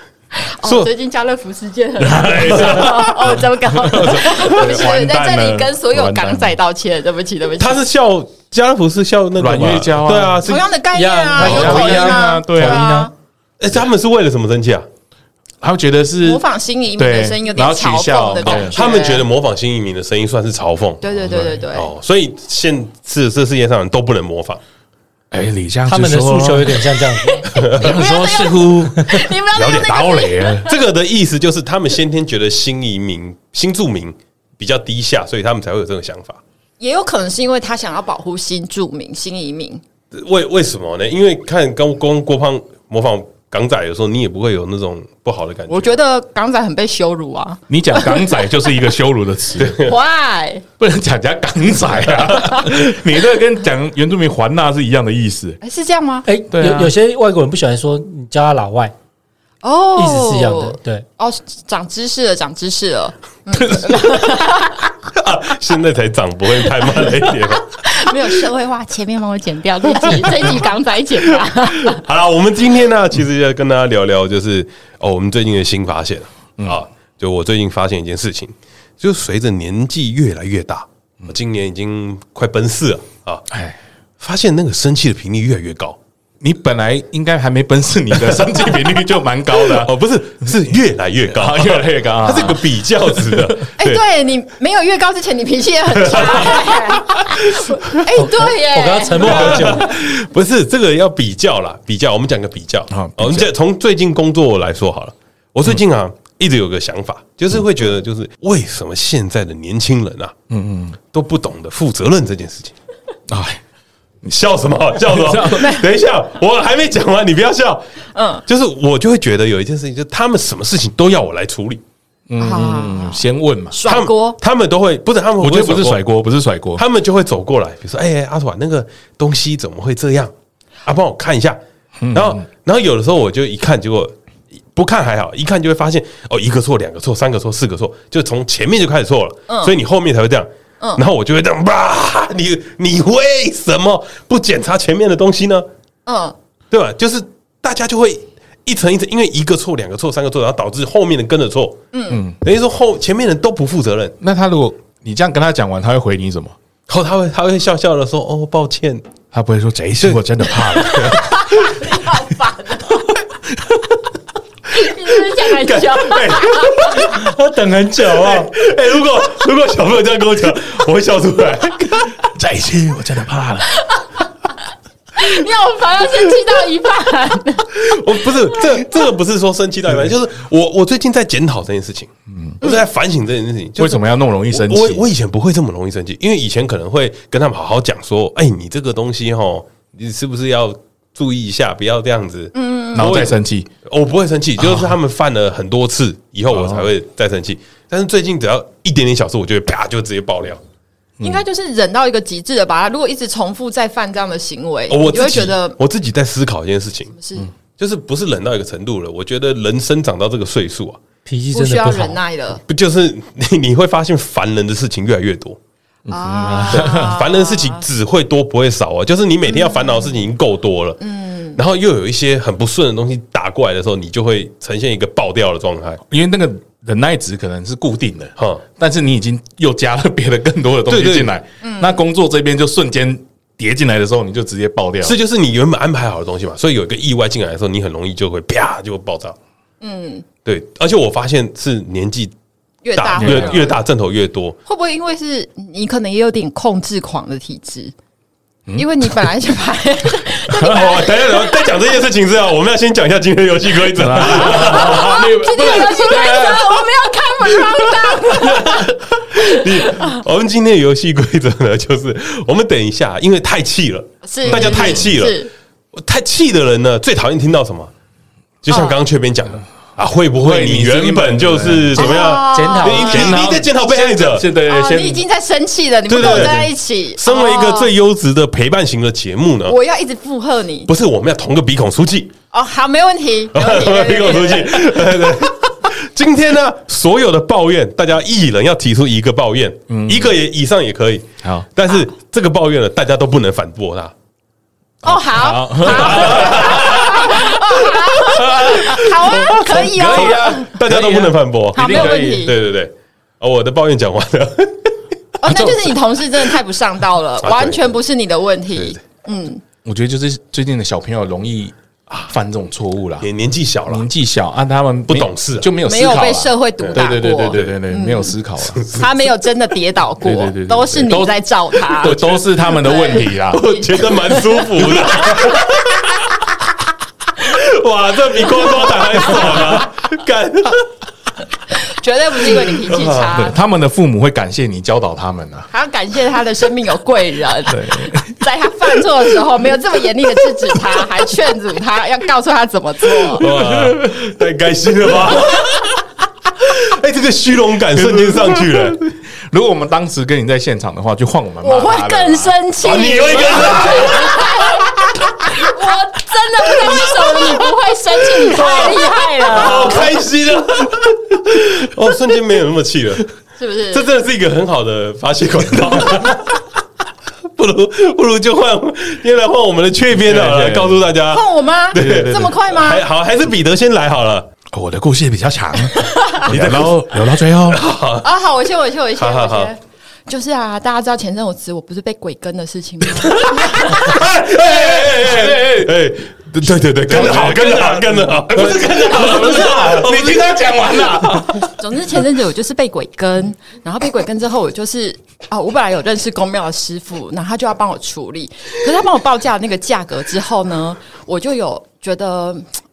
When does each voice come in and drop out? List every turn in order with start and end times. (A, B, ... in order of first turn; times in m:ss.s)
0:00.3-0:07.8 A
0:00.6-0:00.9 B
0:02.0-0:06.5 C
0:07.6-0:10.7 B
0:09.4-0:10.4 C
0:10.4-0:13.1 A
0:10.9-0:13.1 D
0:11.4-0:12.9 C
0:13.6-0:14.8 B
0:15.6-0:16.4 C
0:16.2-0:19.3 A
0:17.0-0:18.8 C
0:18.4-0:21.2 B
0:21.0-0:21.9 A
0:21.7-0:24.6 B
0:25.3-0:27.1 C
0:25.9-0:28.0 D
0:27.2-0:30.8 A
0:27.6-0:30.6 C
0:29.0-0:29.2 D
0:30.6-0:36.4 B
0:36.8-0:39.8 A
0:40.1-0:45.9 B
0:45.7-0:48.8 A
0:47.7-0:49.8 C
0:49.6-0:49.9 B
0:49.8-0:50.6 A
0:50.8-0:55.6 C
0:55.6-0:56.3 A
0:56.2-0:58.9 D
0:56.5-0:56.9 C
0:59.6-1:04.8 A
1:00.0-1:01.0 D
1:03.7-1:04.3 C
1:05.0-1:07.6 B
1:07.8-1:12.0 A
1:10.0-1:10.6 B
1:11.8-1:23.4 B
1:23.5-1:23.8 C
1:24.2-1:26.0 B
1:26.4-1:29.9 C
1:28.1-1:34.0 B
1:31.3-1:33.6 C
1:33.8-1:39.9 A
1:36.0-1:37.7 B
1:38.1-1:39.9 D
1:39.2-1:50.3 B
1:42.9-1:43.5 C
1:50.5-1:51.0 C
1:51.1-1:52.7 B
1:53.3-1:53.6 C
1:54.2-1:57.8 B
1:55.0-1:55.8 C
1:55.6-1:55.9 A
1:58.1-1:58.4 A
1:58.5-2:01.8 B
2:02.3-2:03.8 C
2:02.4-2:04.4 A
2:03.8-2:06.0 B
2:05.4-2:06.8 C
2:06.7-2:10.3 B
2:10.8-2:11.6 B
2:12.0-2:12.4 C
2:12.1-2:14.1 B
2:14.7-2:25.7 B
2:19.5-2:19.7 A
2:26.0-2:26.4 A
2:26.7-2:31.8 B
2:31.9-2:32.2 A
2:32.1-2:32.4 C
2:32.4-2:34.2 B
2:34.2-2:36.6 C
2:36.9-2:39.0 B
2:39.3-2:41.2 C
2:40.8-2:43.1 A
2:40.8-2:41.2 B
2:44.7-2:47.0 A
2:45.3-2:47.2 B
2:47.0-2:48.5 D
2:48.0-2:52.3 B
2:52.2-2:53.7 C
2:53.7-2:54.2 A
2:55.1-2:57.8 A
2:57.7-3:20.6 B
3:02.3-3:02.6 C
3:03.8-3:05.0 C
3:12.5-3:13.3 A
3:12.9-3:13.7 C
3:14.6-3:14.9 C
3:16.5-3:16.9 C
3:21.2-3:25.8 A
3:24.9-3:27.1 B
3:27.1-3:27.5 A
3:27.8-3:31.0 B
3:31.2-3:32.2 D
3:31.5-3:32.6 A
3:32.7-3:35.6 B
3:36.1-3:37.1 C
3:36.1-3:37.8 A
3:36.7-3:41.0 B
3:39.5-3:40.1 A
3:41.0-3:41.6 A
3:41.5-3:46.0 B
3:46.1-3:55.2 C
3:48.4-3:48.6 B
3:50.9-3:51.3 B
3:51.6-3:52.0 A
3:55.0-3:59.4 B
3:59.8-4:00.2 A
4:00.4-4:02.3 B
4:02.8-4:03.8 A
4:02.9-4:04.6 B
4:03.2-4:03.6 C
4:04.6-4:07.9 A
4:08.7-4:09.3 C
4:08.7-4:11.6 A
4:10.5-4:11.0 C
4:10.7-4:15.2 B
4:13.9-4:16.8 C
4:14.4-4:19.0 A
4:18.4-4:25.4 B
4:19.6-4:20.2 A
4:24.2-4:25.5 A
4:24.4-4:25.0 C
4:25.9-4:27.9 B
4:28.6-4:34.4 B
4:28.7-4:29.0 A
4:30.4-4:32.1 C
4:31.9-4:33.4 A
4:32.0-4:33.4 D
4:32.9-4:35.2 C
4:34.2-4:37.9 A
4:36.1-4:39.8 B
4:36.2-4:36.5 C
4:39.7-4:40.9 A
4:40.9-4:42.3 B
4:42.5-4:44.9 A
4:43.5-4:54.1 B
4:49.9-4:50.3 C
4:55.0-5:00.8 A
4:55.0-5:02.5 C
4:55.9-4:56.8 B
4:58.8-5:05.0 B
5:01.7-5:02.6 A
5:05.4-5:09.6 A
5:05.5-5:06.0 C
5:07.4-5:07.9 B
5:09.8-5:11.7 C
5:12.2-5:13.3 C
5:13.2-5:14.1 B
5:13.9-5:18.9 C
5:15.1-5:15.7 B
5:15.8-5:25.7 A
5:18.8-5:19.1 B
5:20.2-5:24.0 C
5:23.5-5:26.5 B
5:25.0-5:25.4 C
5:27.4-5:30.8 B
5:31.7-5:33.6 A
5:32.7-5:33.4 B
5:33.4-5:35.7 C
5:35.7-5:43.4 A
5:37.7-5:38.4 C
5:43.4-5:49.0 B
5:43.6-5:43.9 C
5:48.0-5:52.5 C
5:51.6-5:54.9 A
5:52.8-5:55.2 B
5:55.5-6:00.1 A
5:56.8-5:57.4 B
5:58.4-6:03.2 B
6:03.6-6:04.1 A
6:03.9-6:06.6 B
6:07.5-6:14.5 B
6:10.2-6:11.1 C
6:11.3-6:13.0 A
6:14.7-6:17.8 C
6:15.9-6:16.5 A
6:16.4-6:17.0 B
6:17.6-6:18.3 B
6:18.2-6:24.2 A
6:19.2-6:19.7 B
6:23.1-6:26.0 C
6:24.5-6:30.4 B
6:26.6-6:31.7 C
6:31.7-6:42.7 A